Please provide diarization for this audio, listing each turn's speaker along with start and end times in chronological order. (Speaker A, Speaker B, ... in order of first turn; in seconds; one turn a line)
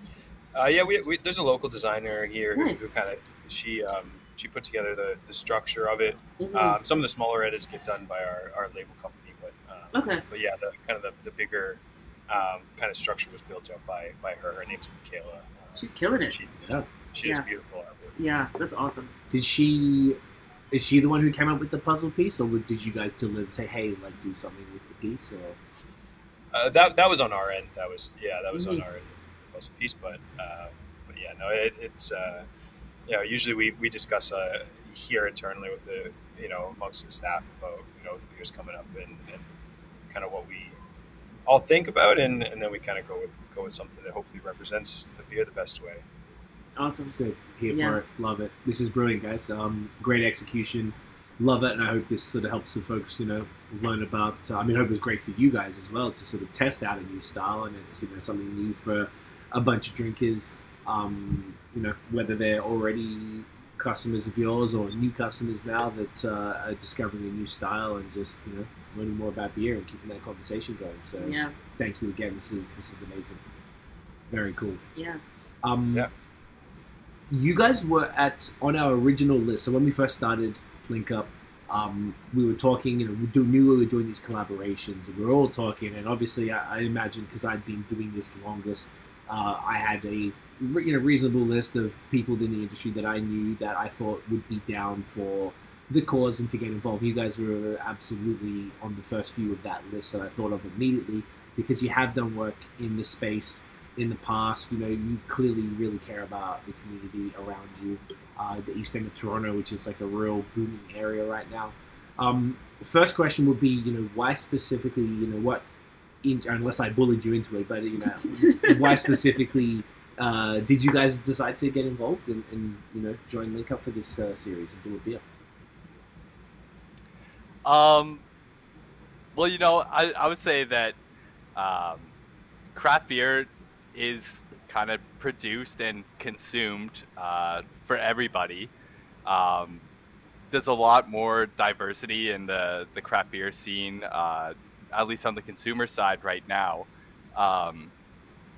Speaker A: 0.5-18.1
Speaker B: 2.5-2.9
Speaker B: 6.4-6.8
Speaker B: 9.9-10.2
Speaker B: 15.8-16.4
Speaker C: 16.6-16.9
Speaker B: 18.2-19.1
Speaker C: 19.3-20.2
Speaker C: 20.7-25.6
Speaker A: 26.5-32.5
Speaker B: 28.5-28.9
Speaker A: 33.1-39.4
Speaker A: 40.1-40.8
Speaker A: 41.5-46.0
Speaker B: 46.8-47.1
Speaker C: 47.1-73.4
Speaker B: 47.7-48.0
Speaker B: 71.2-71.5
Speaker C: 74.3-74.8
Speaker B: 75.0-75.2
Speaker C: 75.6-76.1
Speaker C: 77.3-115.7
Speaker C: 116.2-125.2
Speaker B: 118.2-119.2
Speaker D: 127.7-128.2
Speaker D: 129.3-131.0
Speaker D: 131.6-132.1
Speaker D: 132.8-138.7
Speaker D: 139.3-139.8
Speaker D: 140.5-147.9